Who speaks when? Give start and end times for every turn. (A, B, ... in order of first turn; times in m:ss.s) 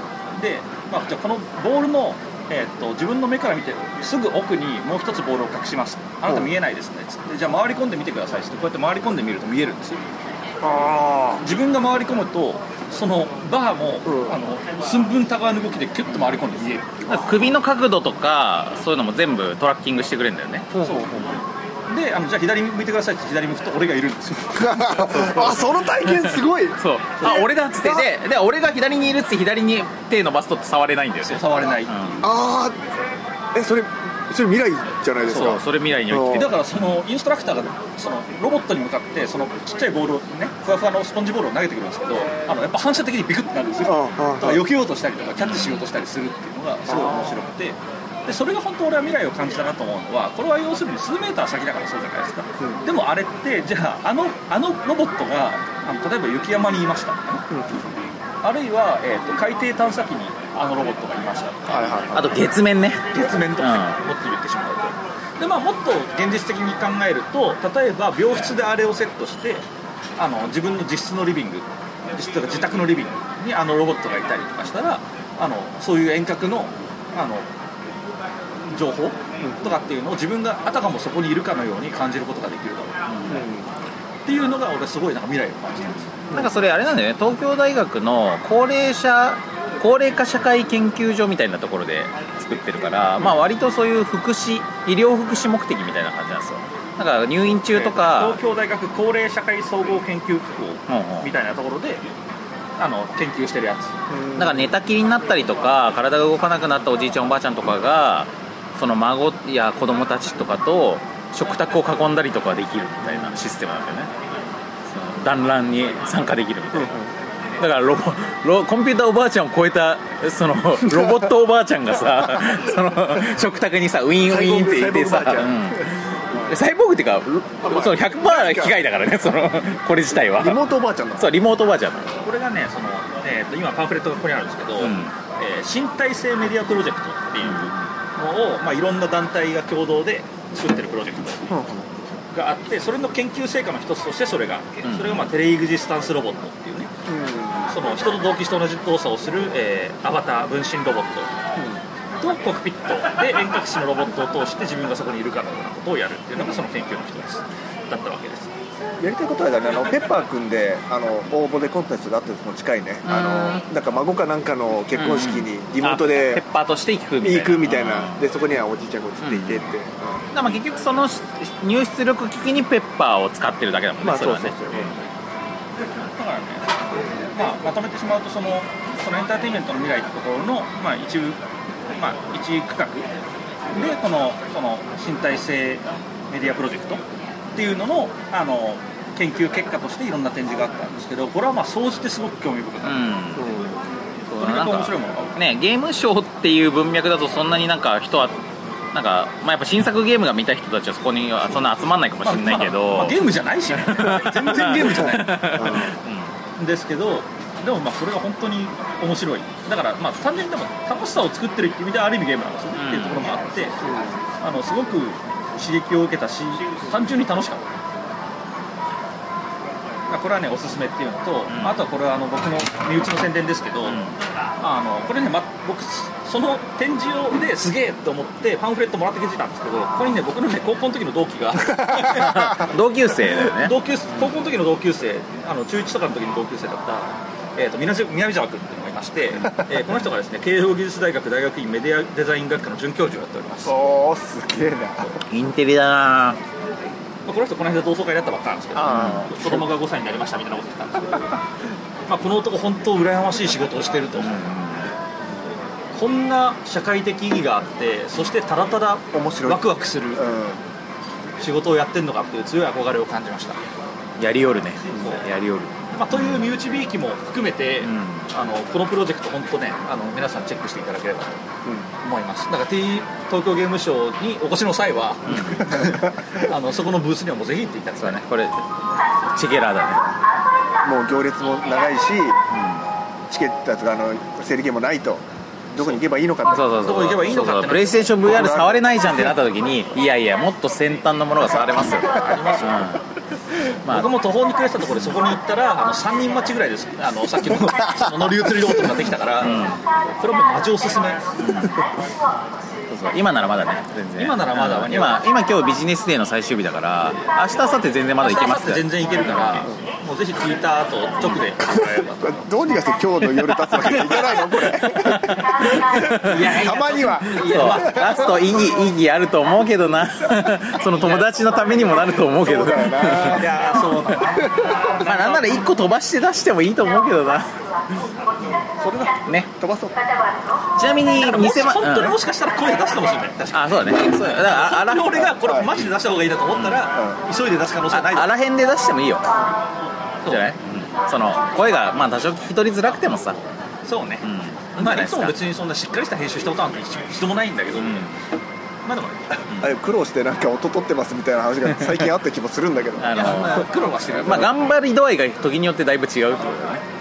0:00.4-0:10.0 A
0:10.6-0:11.4 B
0:11.4-0:17.0 A
0:14.1-0:14.4 B
0:17.1-0:20.7 C
0:20.7-0:21.4 B
0:20.8-0:21.3 A
0:21.9-0:25.0 A
0:24.6-0:28.1 B
0:25.1-0:32.2 C
0:31.2-0:32.3 A
0:32.2-0:32.8 B
0:33.5-0:36.5 B
0:35.3-0:35.6 A
0:35.3-0:36.6 C
0:36.3-0:57.4 A
0:43.9-0:44.6 B
0:45.4-0:45.8 C
0:46.9-0:47.4 B
0:57.5-0:57.9 B
0:58.4-1:01.9 A
1:01.7-1:02.4 B
1:02.1-1:04.0 C
1:03.1-1:09.6 A
1:10.2-1:17.5 A
1:18.7-1:23.0 A
1:23.1-1:23.4 C
1:23.3-1:23.7 B
1:24.2-1:26.1 A
1:26.3-1:38.4 C
1:37.7-1:42.0 A
1:40.9-1:41.3 C
1:42.8-1:43.9 A
1:44.1-1:44.7 B
1:44.4-1:54.1 C
1:54.9-1:56.9 C
1:56.8-1:57.1 B
1:57.6-2:10.6 C
2:00.9-2:01.3 B
2:02.4-2:02.7 B
2:04.2-2:06.6 B
2:07.6-2:08.8 B
2:10.2-2:11.3 B
2:11.2-2:12.2 C
2:12.2-2:21.5 A
2:14.8-2:15.1 C
2:17.4-2:17.8 C
2:21.5-2:21.9 B
2:22.3-2:26.9 A
2:24.8-2:25.3 C
2:27.1-2:27.7 B
2:27.7-2:31.3 A
2:32.2-2:38.5 A
2:39.0-2:46.4 B
2:43.0-2:43.6 C
2:45.0-2:48.3 C
2:47.2-2:50.2 B
2:49.2-2:49.7 C
2:50.3-2:55.0 C
2:54.0-2:54.9 B
2:56.0-2:56.8 A
2:57.3-3:01.4 A
3:02.0-3:03.1 A
3:03.7-3:07.0 A
3:07.6-3:13.1 A
3:12.8-3:13.5 C
3:13.4-3:13.8 B
3:14.3-3:18.4 C
3:14.4-3:15.4 A
3:18.9-3:23.2 C
3:22.2-3:25.7 A
3:23.8-3:26.3 C
3:25.6-3:25.9 B
3:26.6-3:37.7 A
3:32.8-3:33.3 C
3:33.8-3:34.2 B
3:40.1-3:44.0 A
3:41.5-3:41.8 C
3:43.9-3:44.2 C
3:44.6-3:52.6 A
3:52.0-3:53.8 C
3:53.4-4:03.7 A
4:03.6-4:05.2 B
4:05.3-4:06.4 C
4:07.3-4:11.2 A
4:08.8-4:09.6 B
4:08.9-4:09.3 C
4:12.1-4:14.4 A
4:14.2-4:14.9 C
4:15.9-4:20.2 A
4:19.1-4:20.6 B
4:21.4-4:23.6 A
4:24.2-4:26.5 C
4:25.9-4:31.4 A
4:27.8-4:28.3 C
4:32.0-4:38.2 A
4:35.3-4:35.8 C
4:35.6-4:36.3 B
4:38.0-4:38.7 C
4:39.3-4:40.0 C
4:40.8-4:42.4 B
4:42.5-4:42.8 C
4:43.3-4:45.2 B
4:45.7-4:46.7 B
4:45.8-4:46.0 A
4:46.5-4:53.0 C
4:46.6-4:48.1 A
4:48.2-4:49.4 B
4:51.5-4:52.9 A
4:53.8-4:54.1 C
4:53.9-4:59.7 A
4:59.4-4:59.8 C
5:00.2-5:01.3 A
5:01.4-5:01.8 C
5:02.9-5:09.7 C
5:04.2-5:05.3 A
5:08.2-5:12.6 A
5:11.6-5:18.6 B
5:13.9-5:14.5 A
5:15.0-5:16.7 C
5:16.2-5:18.3 A
5:17.3-5:23.5 C
5:22.2-5:23.7 B
5:23.2-5:25.7 A
5:24.4-5:24.8 B
5:25.0-5:27.6 C
5:28.7-5:30.0 B
5:30.8-5:32.2 C
5:31.2-5:38.3 A
5:33.5-5:35.3 C
5:35.4-5:35.7 B
5:36.9-5:37.2 B
5:37.9-5:39.3 C
5:40.2-5:40.5 A
5:40.2-5:43.4 C
5:43.8-5:48.0 A
5:44.2-5:45.4 C
5:47.8-5:48.2 C
5:48.8-5:49.4 A
5:49.6-5:53.5 B
5:53.0-5:56.8 C
5:53.1-5:54.5 A